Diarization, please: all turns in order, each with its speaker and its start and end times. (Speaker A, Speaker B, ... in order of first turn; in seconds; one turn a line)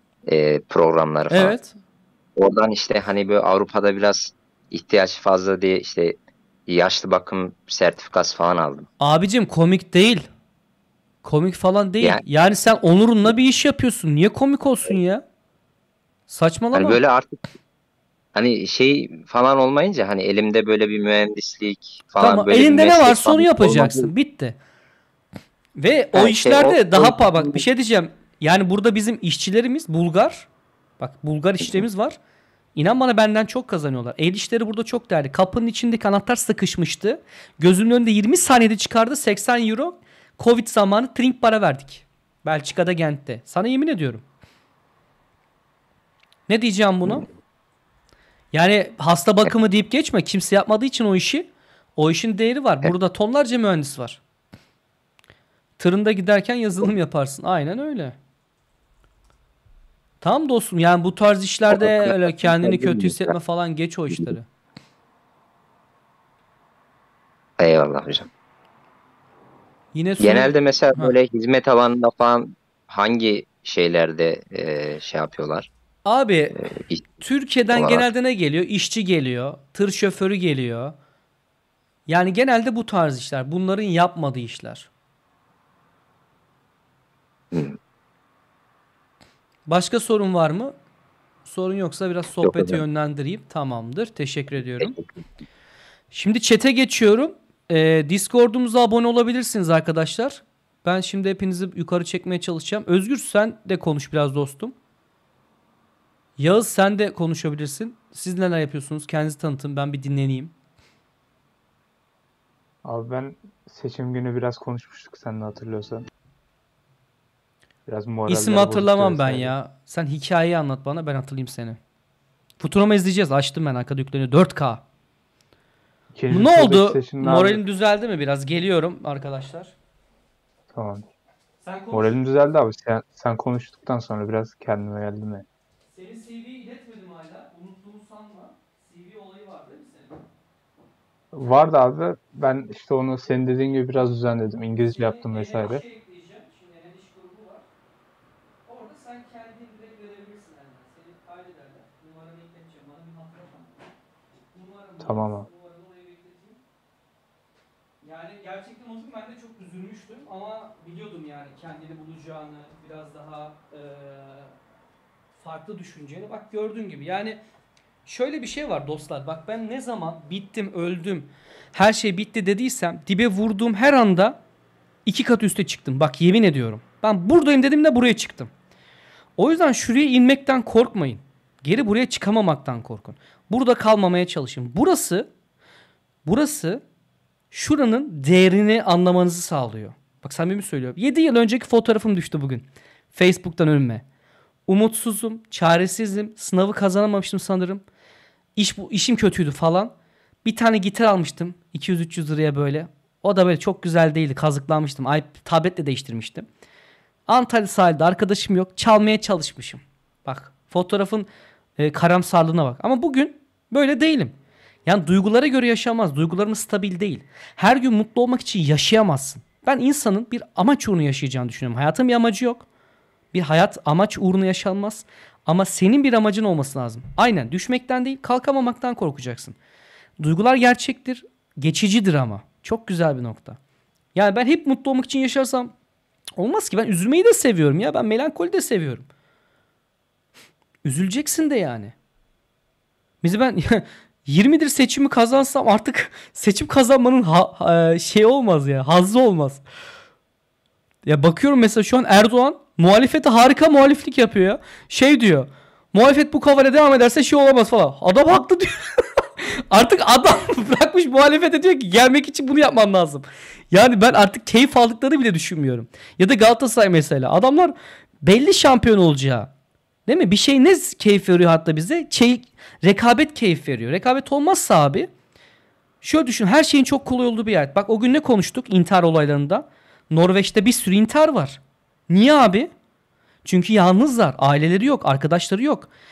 Speaker A: 0.3-1.5
Speaker B: 1.3-1.8
Speaker A: 2.4-8.9
Speaker B: 9.0-10.3
Speaker B: 11.2-15.2
Speaker B: 16.3-17.0
Speaker A: 16.7-17.4
Speaker A: 18.3-24.1
Speaker B: 22.2-24.6
Speaker B: 25.8-30.5
Speaker A: 26.1-27.6
Speaker B: 31.0-32.2
Speaker B: 32.8-44.2
Speaker B: 46.5-47.2
Speaker B: 48.5-54.2
Speaker B: 55.8-58.1
Speaker B: 60.2-64.4
Speaker A: 61.7-63.3
Speaker A: 67.6-68.3
Speaker B: 69.9-71.1
Speaker A: 70.2-75.7
Speaker B: 76.0-76.6
Speaker A: 76.6-77.0
Speaker B: 77.2-80.9
Speaker A: 77.7-78.0
Speaker B: 82.1-84.9
Speaker A: 87.5-87.8
Speaker B: 89.7-90.7
Speaker B: 91.4-94.9
Speaker A: 92.4-92.8
Speaker A: 94.8-95.1
Speaker B: 96.1-104.7
Speaker B: 106.4-110.5
Speaker C: 112.8-116.0
Speaker C: 117.9-119.5
Speaker B: 118.3-121.8
Speaker B: 122.6-124.8
Speaker C: 126.1-127.6
Speaker B: 126.3-129.7
Speaker C: 130.7-131.0
Speaker B: 131.6-132.2
Speaker C: 131.9-135.4
Speaker B: 135.9-140.2
Speaker C: 141.3-145.8
Speaker B: 144.9-147.7
Speaker B: 148.7-153.8
Speaker B: 154.5-156.6
Speaker C: 155.0-155.5
Speaker B: 158.0-164.5
Speaker B: 165.4-167.4
Speaker B: 168.1-174.4
Speaker B: 175.1-178.5
Speaker B: 179.4-185.3
Speaker B: 186.2-186.8
Speaker B: 187.5-194.0
Speaker B: 194.7-197.8
Speaker B: 198.6-199.9
Speaker B: 200.4-206.4
Speaker B: 207.3-214.3
Speaker B: 214.8-222.7
Speaker B: 223.3-229.6
Speaker B: 230.2-233.6
Speaker B: 234.1-235.7
Speaker B: 236.4-239.1
Speaker B: 240.8-241.9
Speaker B: 243.2-249.6
Speaker B: 251.0-269.5
Speaker B: 270.1-275.1
Speaker B: 276.0-282.7
Speaker B: 283.4-285.9